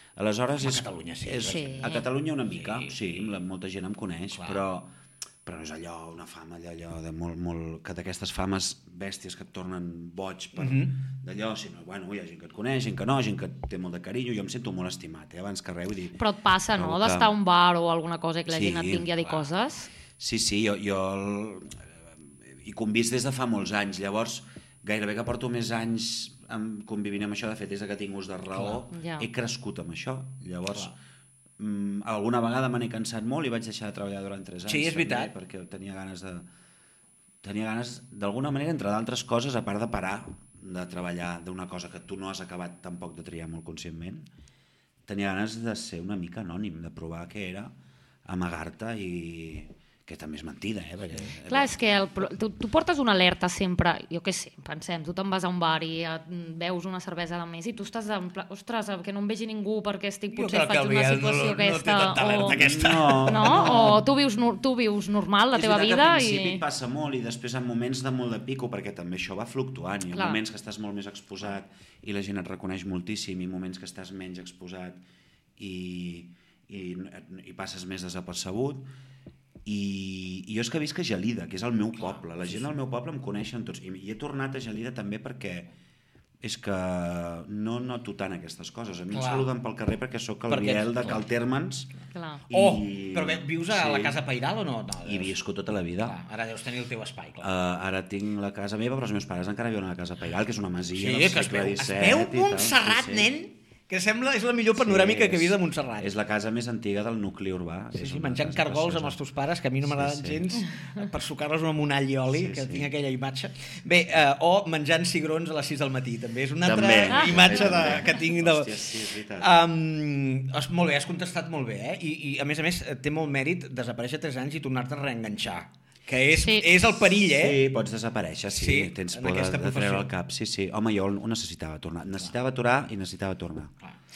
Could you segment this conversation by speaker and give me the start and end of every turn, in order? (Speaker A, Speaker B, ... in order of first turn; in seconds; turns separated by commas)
Speaker A: 0.2-4.9, Speaker B: 0.6-2.0, Speaker C: 1.5-2.1, Speaker B: 2.5-3.3, Speaker B: 4.3-4.6, Speaker A: 5.5-16.2, Speaker B: 10.6-11.0, Speaker C: 16.2-19.9, Speaker A: 16.7-17.3, Speaker A: 18.5-19.5, Speaker A: 20.1-21.8, Speaker A: 22.4-30.9, Speaker B: 28.5-28.8, Speaker C: 28.9-29.3, Speaker A: 31.6-36.5, Speaker B: 34.7-35.3, Speaker A: 37.4-44.3, Speaker A: 45.1-47.7, Speaker A: 48.3-51.8, Speaker C: 51.5-62.6, Speaker B: 60.3-63.9, Speaker A: 62.5-64.0, Speaker C: 63.3-66.6, Speaker A: 65.5-75.0, Speaker C: 70.1-70.4, Speaker A: 75.6-78.9, Speaker A: 79.7-85.7, Speaker B: 82.0-82.7, Speaker A: 86.4-91.9, Speaker B: 89.1-89.5, Speaker B: 90.5-91.3, Speaker C: 92.1-92.4, Speaker A: 92.5-94.2, Speaker B: 92.5-95.4, Speaker A: 95.0-96.2, Speaker B: 96.0-97.5, Speaker A: 97.4-103.3, Speaker B: 101.0-106.1, Speaker A: 104.8-109.2, Speaker B: 108.0-118.8, Speaker A: 109.8-110.5, Speaker A: 112.3-112.9, Speaker A: 116.6-119.5, Speaker B: 119.4-127.6, Speaker C: 126.4-126.9, Speaker A: 127.2-133.7, Speaker B: 128.6-130.1